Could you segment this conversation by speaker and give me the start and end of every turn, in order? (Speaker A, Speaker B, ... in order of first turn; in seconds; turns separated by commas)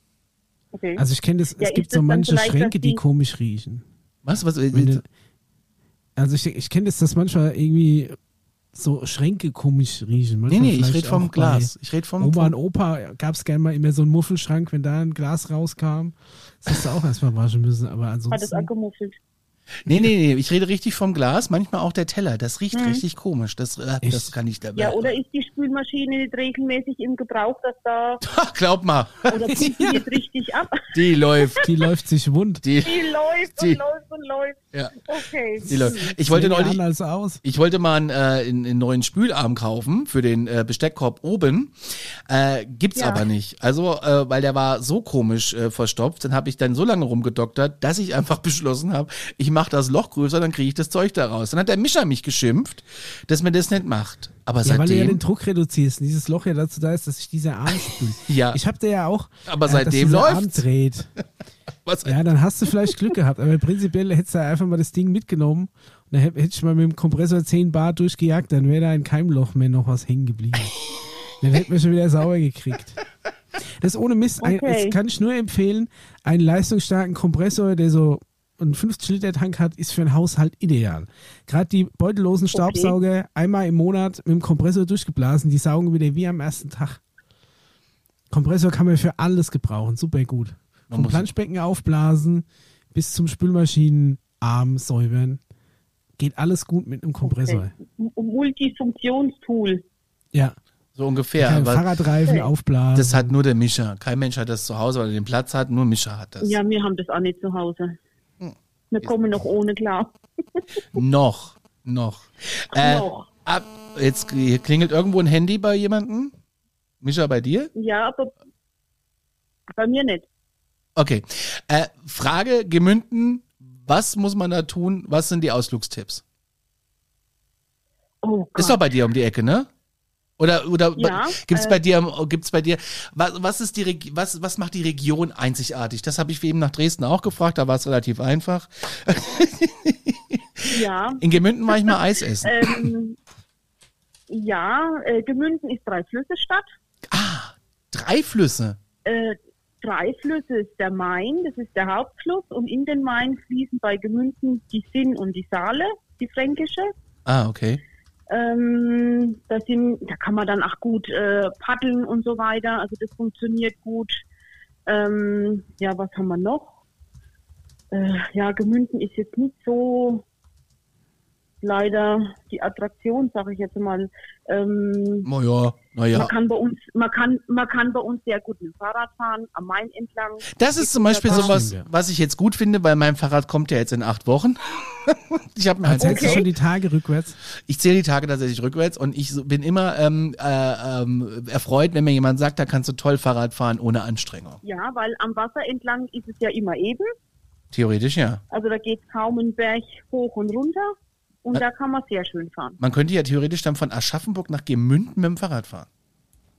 Speaker A: 0.7-1.0, Speaker B: 1.0-3.8, Speaker A: 1.6-3.0, Speaker C: 4.2-5.0, Speaker B: 4.7-5.0, Speaker B: 6.2-8.2, Speaker B: 8.7-18.7, Speaker C: 10.5-12.5, Speaker A: 18.3-19.2, Speaker C: 19.8-25.1, Speaker A: 22.7-23.0, Speaker B: 24.0-24.3, Speaker A: 24.8-28.2, Speaker C: 28.2-29.8, Speaker A: 29.3-31.7, Speaker B: 29.5-30.0, Speaker C: 30.9-31.7, Speaker B: 31.6-32.6, Speaker C: 32.6-33.0, Speaker A: 32.8-36.1, Speaker C: 34.7-35.1, Speaker C: 35.6-36.8, Speaker B: 35.7-37.4, Speaker C: 37.4-41.7, Speaker C: 42.2-55.2, Speaker A: 43.0-43.2, Speaker B: 54.6-61.1, Speaker C: 58.2-58.6, Speaker C: 59.5-60.6, Speaker C: 61.9-62.2, Speaker B: 62.0-70.8, Speaker B: 71.4-73.0, Speaker B: 73.6-87.0, Speaker A: 74.4-75.0, Speaker A: 82.5-82.9, Speaker B: 88.3-95.4, Speaker C: 90.9-91.3, Speaker B: 96.2-97.7, Speaker A: 97.2-99.8, Speaker C: 101.0-102.0, Speaker B: 101.4-103.3, Speaker A: 102.2-102.5, Speaker C: 102.9-106.6, Speaker A: 106.4-108.0, Speaker C: 108.4-109.1, Speaker A: 108.9-110.6, Speaker C: 110.9-116.3, Speaker A: 112.7-113.3, Speaker C: 117.0-117.7, Speaker A: 117.7-118.3, Speaker A: 119.7-120.3, Speaker C: 121.0-126.2, Speaker A: 128.2-128.8, Speaker C: 128.5-129.7, Speaker C: 130.4-142.9, Speaker A: 130.9-131.8, Speaker A: 140.7-143.2, Speaker A: 144.3-146.7, Speaker C: 147.1-148.8, Speaker A: 149.0-156.9, Speaker C: 157.2-157.8, Speaker A: 158.3-164.2, Speaker A: 164.9-166.7, Speaker A: 167.9-170.2, Speaker A: 171.6-175.3, Speaker C: 175.2-176.3, Speaker A: 176.1-181.6, Speaker C: 180.5-186.5, Speaker B: 181.3-181.9, Speaker B: 185.8-187.4, Speaker A: 186.0-186.4, Speaker C: 187.7-194.6, Speaker A: 194.6-197.1, Speaker C: 197.7-198.4, Speaker A: 198.5-200.9, Speaker A: 201.4-202.8, Speaker C: 202.8-205.9